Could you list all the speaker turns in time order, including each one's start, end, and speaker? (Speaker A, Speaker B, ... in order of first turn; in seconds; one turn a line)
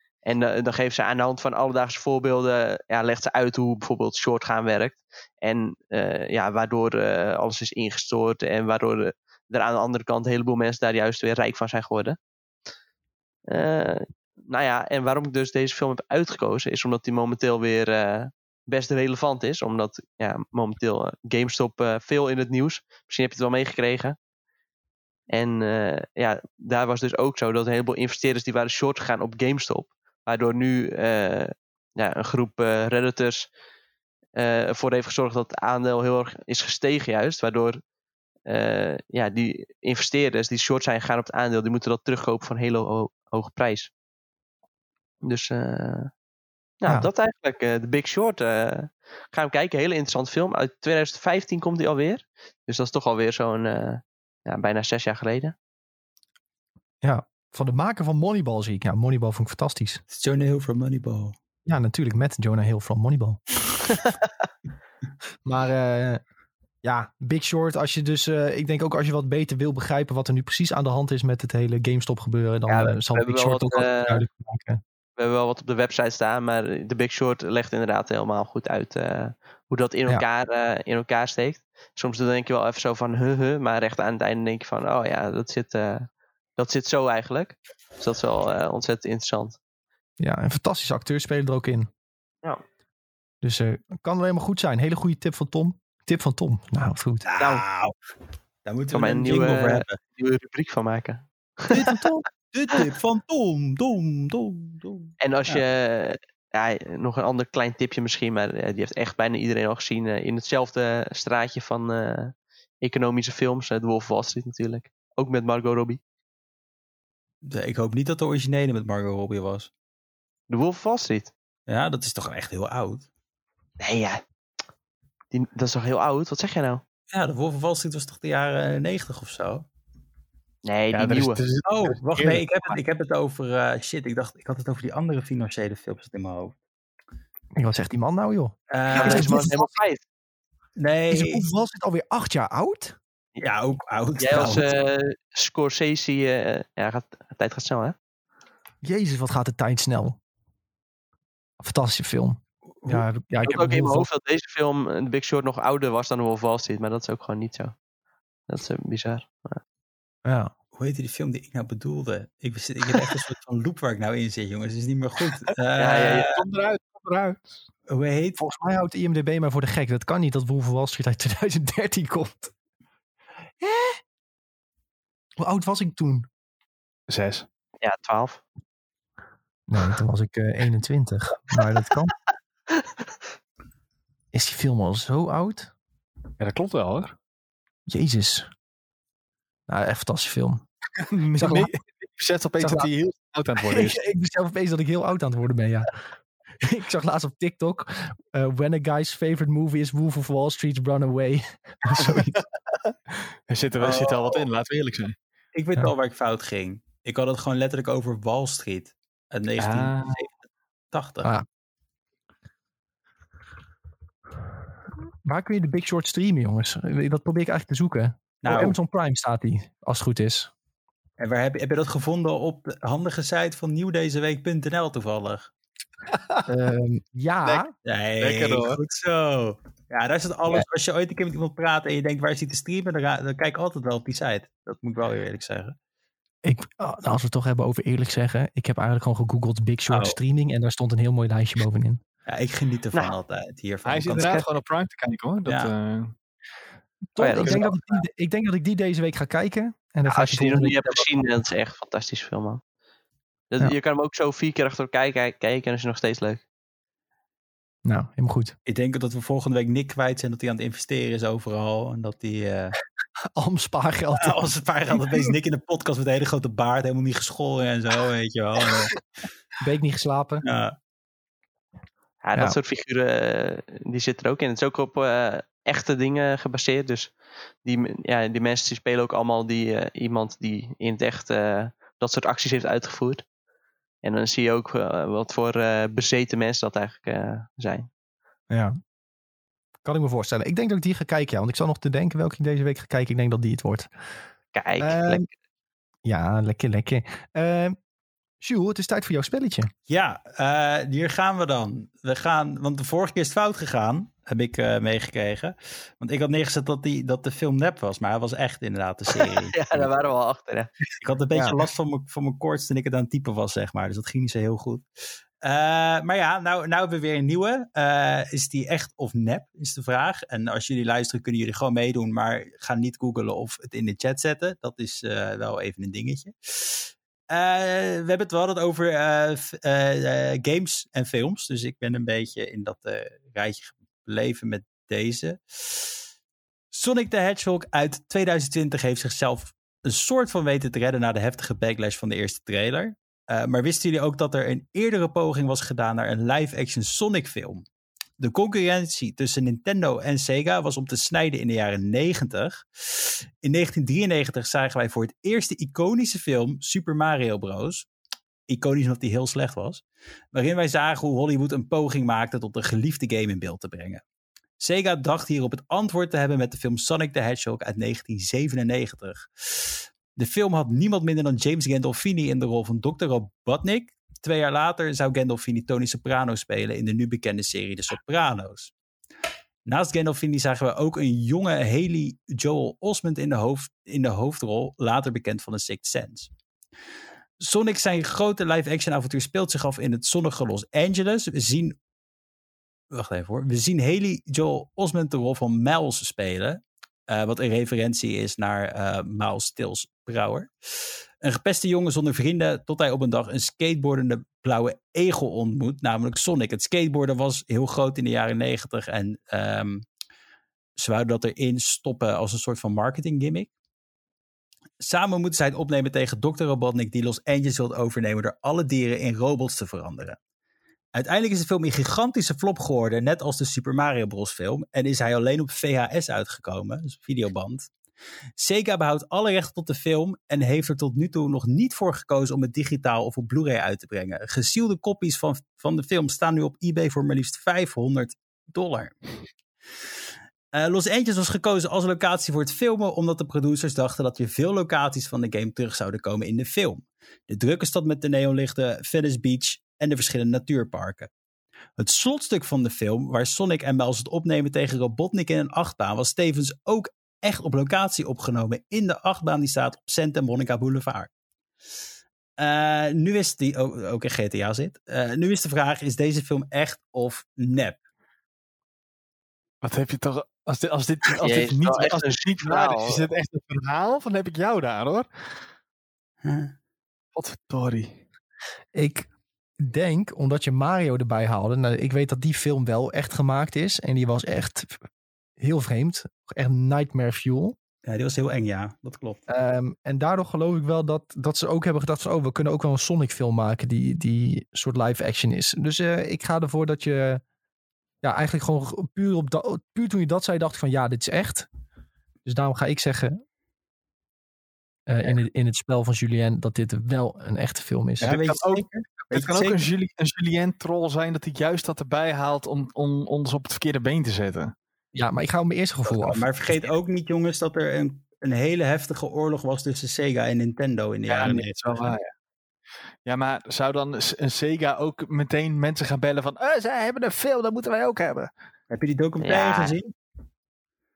Speaker A: 0.2-12.2
Speaker A: 13.5-24.2
Speaker A: 25.3-33.5
Speaker A: 34.4-37.8
Speaker A: 38.5-43.9
Speaker A: 45.2-46.1
Speaker A: 46.8-55.5
Speaker B: 57.0-60.0
Speaker C: 60.1-61.4
Speaker B: 61.7-63.4
Speaker B: 65.5-66.2
Speaker B: 66.8-74.8
Speaker A: 72.7-74.2
Speaker A: 75.2-89.6
Speaker B: 90.2-91.9
Speaker B: 93.4-97.3
Speaker C: 97.2-98.0
Speaker C: 98.7-100.0
Speaker A: 98.9-101.7
Speaker C: 101.7-105.6
Speaker B: 101.7-102.2
Speaker A: 105.2-116.0
Speaker C: 117.4-119.7
Speaker A: 120.5-121.3
Speaker C: 121.7-123.1
Speaker A: 123.8-124.2
Speaker A: 125.3-126.8
Speaker C: 127.1-129.7
Speaker A: 130.7-131.4
Speaker D: 130.9-132.8
Speaker C: 131.7-136.6
Speaker B: 137.6-139.7
Speaker C: 138.7-139.4
Speaker A: 138.9-140.0
Speaker C: 140.8-141.4
Speaker B: 141.1-143.0
Speaker C: 143.4-144.7
Speaker A: 144.2-148.0
Speaker B: 148.8-150.2
Speaker B: 151.6-154.1
Speaker A: 153.4-157.8
Speaker A: 158.5-159.6
Speaker B: 160.2-160.5
Speaker C: 160.7-166.4
Speaker A: 165.8-166.3
Speaker D: 165.8-167.6
Speaker C: 167.9-168.4
Speaker B: 168.4-172.5
Speaker B: 173.6-174.0
Speaker B: 175.4-176.3
Speaker D: 177.1-177.5
Speaker A: 177.8-178.4
Speaker B: 179.7-182.1
Speaker B: 184.3-185.7
Speaker D: 186.4-187.2
Speaker B: 187.9-188.5
Speaker B: 189.7-190.6
Speaker D: 191.0-194.0
Speaker B: 191.4-191.7
Speaker B: 192.6-192.9
Speaker B: 193.6-195.9
Speaker B: 196.6-202.4
Speaker D: 202.9-205.2
Speaker C: 203.8-204.4
Speaker C: 205.5-210.4
Speaker D: 209.6-210.2
Speaker C: 210.9-211.3
Speaker B: 215.2-220.5
Speaker C: 218.4-218.8
Speaker C: 221.2-225.5
Speaker D: 226.1-226.5
Speaker B: 226.5-227.7
Speaker C: 227.8-235.8
Speaker D: 228.2-228.8
Speaker B: 236.4-242.0
Speaker C: 239.9-240.2
Speaker C: 242.3-244.4
Speaker D: 243.8-246.2
Speaker C: 245.5-245.7
Speaker B: 247.2-251.1
Speaker A: 247.2-247.7
Speaker D: 247.4-247.8
Speaker A: 250.1-252.6
Speaker A: 253.5-256.4
Speaker B: 257.9-258.6
Speaker C: 258.7-262.8
Speaker B: 263.4-264.4
Speaker C: 264.2-269.0
Speaker B: 269.6-270.4
Speaker C: 270.4-270.8
Speaker A: 272.2-277.1
Speaker A: 277.6-283.2
Speaker A: 284.0-287.9
Speaker B: 288.5-288.8
Speaker B: 289.8-293.9
Speaker A: 294.5-295.3
Speaker B: 294.8-295.3
Speaker B: 296.1-297.8
Speaker B: 298.4-299.7
Speaker C: 299.9-309.9
Speaker A: 309.1-310.7
Speaker C: 311.0-314.9
Speaker B: 311.3-311.6
Speaker C: 315.4-336.0
Speaker C: 336.7-347.7
Speaker C: 348.2-357.9
Speaker C: 358.5-364.0
Speaker C: 364.6-378.7
Speaker C: 379.7-386.3
Speaker C: 387.4-391.8
Speaker C: 392.9-409.9
Speaker C: 410.8-413.5
Speaker C: 414.8-420.2
Speaker C: 420.9-427.7
Speaker C: 428.4-439.0
Speaker C: 440.5-451.1
Speaker C: 451.8-461.1
Speaker C: 462.4-467.8
Speaker D: 469.6-475.3
Speaker A: 471.2-473.0
Speaker C: 476.2-476.5
Speaker D: 477.1-478.0
Speaker B: 478.7-479.1
Speaker B: 479.6-484.8
Speaker B: 485.4-487.6
Speaker C: 487.9-489.2
Speaker B: 489.3-497.2
Speaker B: 498.0-501.5
Speaker B: 502.2-503.2
Speaker B: 504.9-508.2
Speaker D: 508.0-514.5
Speaker C: 508.0-509.7
Speaker B: 514.9-516.7
Speaker C: 515.9-522.0
Speaker D: 521.1-522.1
Speaker D: 523.0-528.3
Speaker C: 528.7-529.9
Speaker A: 529.2-529.8